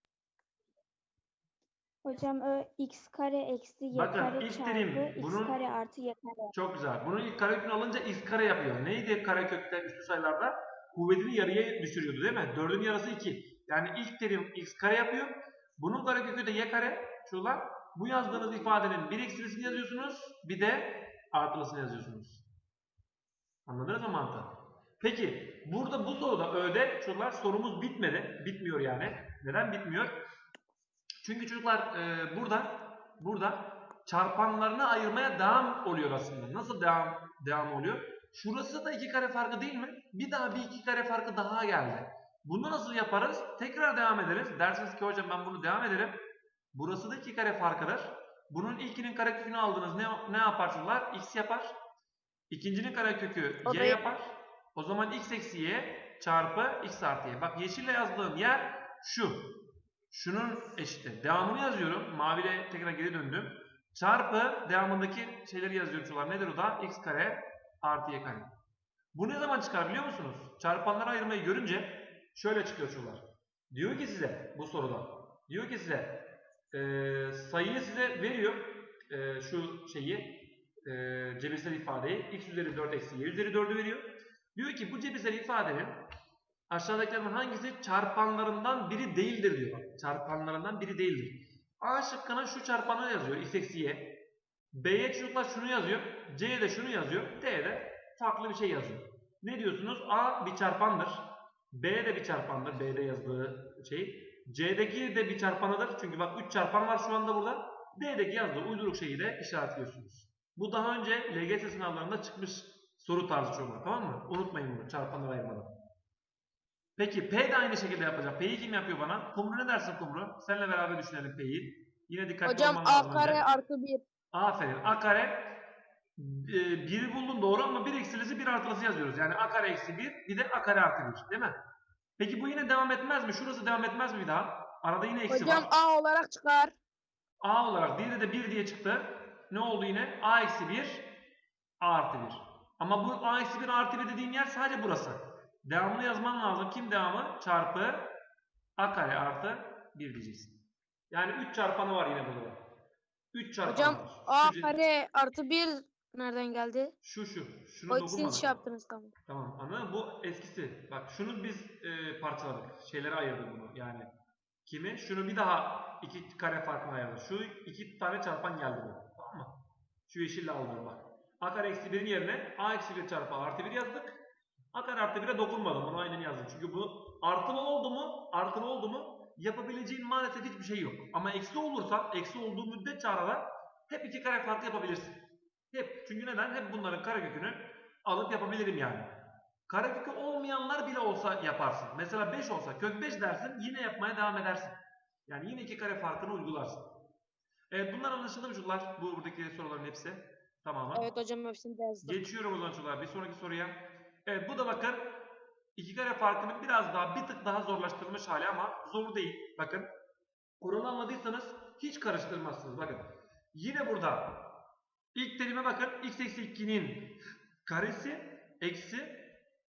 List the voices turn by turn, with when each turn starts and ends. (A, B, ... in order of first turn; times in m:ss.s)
0:02.0-0:06.5 A
0:03.9-0:05.6 B
0:06.5-0:22.4 B
0:23.7-0:30.1 B
0:31.2-0:46.2 B
0:46.7-0:51.7 B
0:52.5-0:59.5 B
0:53.6-0:54.0 C
1:00.1-1:08.5 B
1:09.1-1:26.0 B
1:26.7-1:34.1 B
1:34.7-1:55.7 B
1:57.0-2:03.4 B
2:02.4-2:04.0 C
2:04.3-2:05.6 B
2:06.2-2:11.6 B
2:12.2-2:15.7 B
2:15.3-2:16.7 C
2:17.4-2:21.1 B
2:21.8-2:28.1 B
2:28.8-2:32.6 B
2:33.3-2:34.7 B
2:33.7-2:36.9 C
2:37.0-2:38.6 B
2:37.9-2:39.1 C
2:39.3-2:44.1 B
2:44.6-2:49.6 B
2:50.1-2:54.2 B
2:54.7-3:05.2 B
3:05.7-3:09.1 B
3:09.7-3:16.9 B
3:17.7-3:21.1 B
3:20.9-3:22.2 C
3:22.0-3:25.2 B
3:25.8-3:29.9 B
3:30.6-3:34.5 B
3:35.1-3:39.3 B